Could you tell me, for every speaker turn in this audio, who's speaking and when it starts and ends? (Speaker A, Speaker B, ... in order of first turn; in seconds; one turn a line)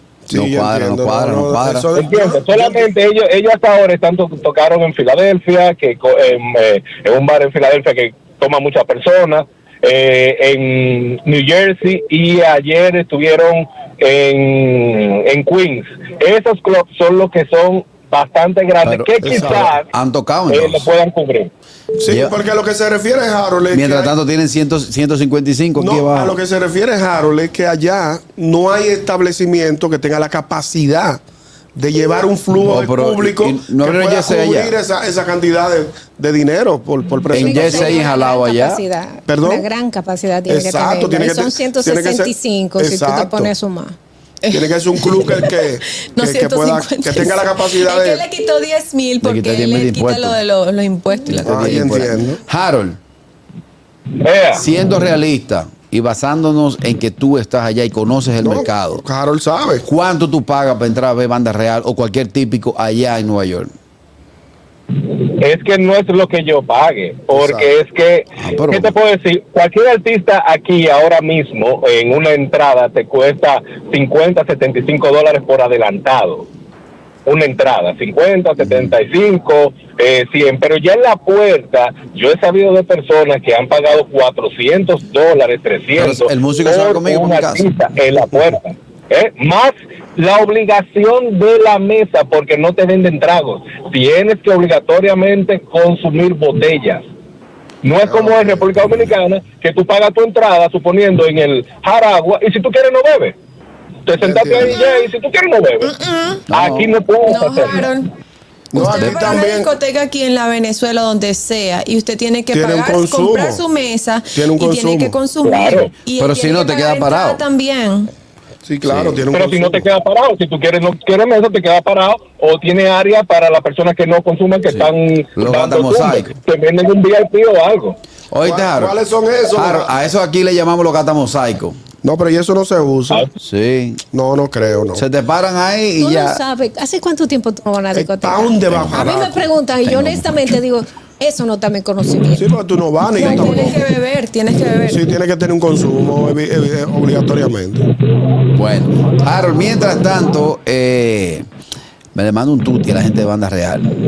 Speaker A: 0.3-2.8
Speaker B: 0.3-1.9
Speaker C: 1.9-19.9
Speaker B: 18.8-20.9
Speaker A: 19.2-19.7
Speaker C: 20.5-21.5
Speaker A: 22.0-24.1
Speaker B: 22.1-22.4
Speaker B: 23.7-26.4
Speaker A: 25.8-31.2
Speaker A: 31.8-37.9
Speaker B: 32.6-34.8
Speaker D: 37.2-44.0
Speaker B: 37.3-38.8
Speaker A: 39.3-39.6
Speaker A: 40.5-43.5
Speaker E: 44.5-52.0
Speaker A: 44.5-48.2
Speaker B: 49.2-50.4
Speaker B: 51.3-53.0
Speaker A: 51.5-52.4
Speaker C: 54.2-54.7
Speaker B: 54.5-59.0
Speaker A: 58.4-59.9
Speaker B: 59.9-63.7
Speaker C: 65.4-76.5
Speaker A: 67.3-67.7
Speaker B: 68.4-69.0
Speaker C: 77.3-97.0
Speaker B: 78.6-78.9
Speaker B: 86.0-87.6
Speaker C: 97.8-103.4
Speaker C: 104.1-105.9
Speaker A: 104.2-104.8
Speaker E: 105.9-106.4
Speaker B: 106.5-106.9
Speaker C: 106.5-107.9
Speaker E: 107.3-108.1
Speaker A: 108.7-109.7
Speaker E: 108.7-118.1
Speaker B: 109.0-109.4
Speaker A: 112.5-113.6
Speaker A: 114.4-115.1
Speaker C: 115.4-115.9
Speaker B: 116.2-117.4
Speaker A: 118.6-119.8
Speaker B: 118.8-119.3
Speaker C: 119.3-128.0
Speaker B: 124.7-126.4
Speaker B: 128.3-129.0
Speaker A: 128.4-129.9
Speaker B: 129.5-131.8
Speaker A: 132.0-133.3
Speaker B: 133.4-134.0
Speaker A: 134.1-135.0
Speaker B: 134.9-136.4
Speaker D: 136.0-142.6
Speaker A: 137.9-139.4
Speaker B: 138.7-139.2
Speaker B: 139.8-140.4
Speaker A: 142.4-143.8
Speaker E: 143.1-145.1
Speaker D: 143.2-143.7
Speaker A: 144.9-147.9
Speaker B: 148.5-151.4
Speaker B: 152.2-153.9